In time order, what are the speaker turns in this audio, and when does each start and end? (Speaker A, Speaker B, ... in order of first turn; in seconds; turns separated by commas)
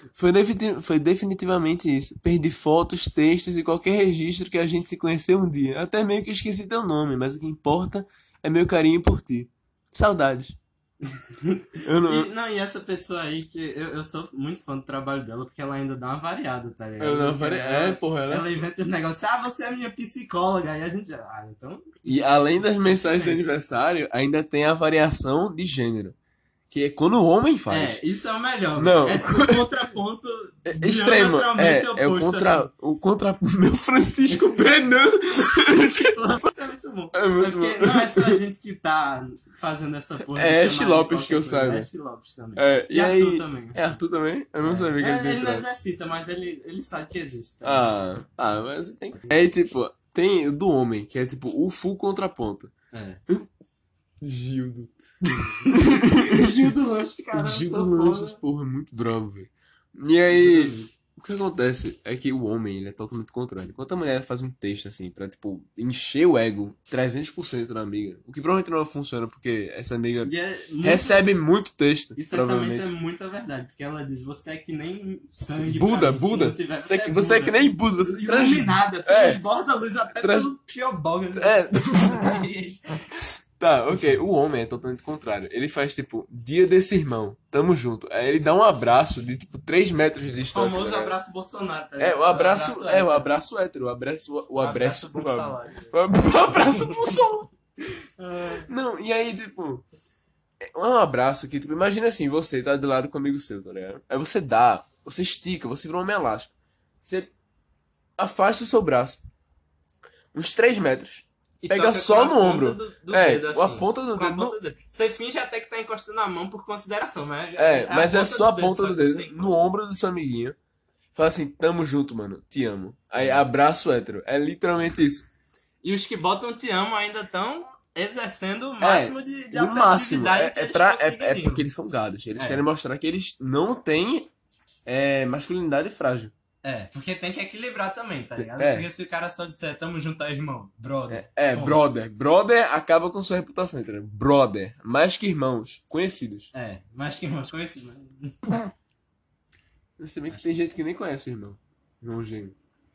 Speaker A: 0.1-10.6, Speaker B: 11.0-23.5, Speaker A: 11.8-12.3, Speaker A: 17.0-18.6, Speaker A: 22.0-26.1, Speaker A: 26.7-28.0, Speaker B: 27.7-32.7, Speaker A: 28.8-29.7, Speaker A: 30.6-36.1, Speaker B: 34.3-34.7, Speaker B: 35.6-44.0, Speaker A: 37.1-38.4, Speaker A: 40.2-41.9, Speaker A: 42.5-45.6, Speaker B: 44.6-47.9, Speaker A: 47.6-52.7, Speaker B: 52.9-53.2, Speaker A: 54.2-56.7, Speaker B: 55.5-58.4, Speaker A: 57.3-72.9, Speaker B: 60.3-60.9, Speaker B: 70.2-71.2, Speaker B: 72.2-83.0, Speaker A: 75.6-79.4, Speaker A: 80.2-80.5, Speaker A: 81.4-82.4, Speaker A: 83.6-91.2, Speaker B: 90.5-93.3, Speaker A: 92.0-97.5, Speaker B: 94.6-97.2, Speaker B: 98.2-98.7, Speaker A: 98.6-99.8, Speaker A: 100.6-106.5, Speaker A: 107.0-107.3, Speaker A: 108.2-109.2, Speaker A: 110.3-114.6, Speaker B: 111.6-119.7, Speaker A: 117.6-120.5, Speaker A: 121.1-125.3, Speaker B: 123.2-123.4, Speaker B: 125.8-131.7, Speaker A: 128.8-134.3, Speaker B: 132.3-132.6, Speaker A: 134.9-136.3, Speaker B: 136.6-141.8, Speaker A: 138.4-138.9, Speaker A: 141.1-146.5, Speaker B: 146.5-148.5, Speaker A: 150.0-152.6, Speaker B: 150.3-150.6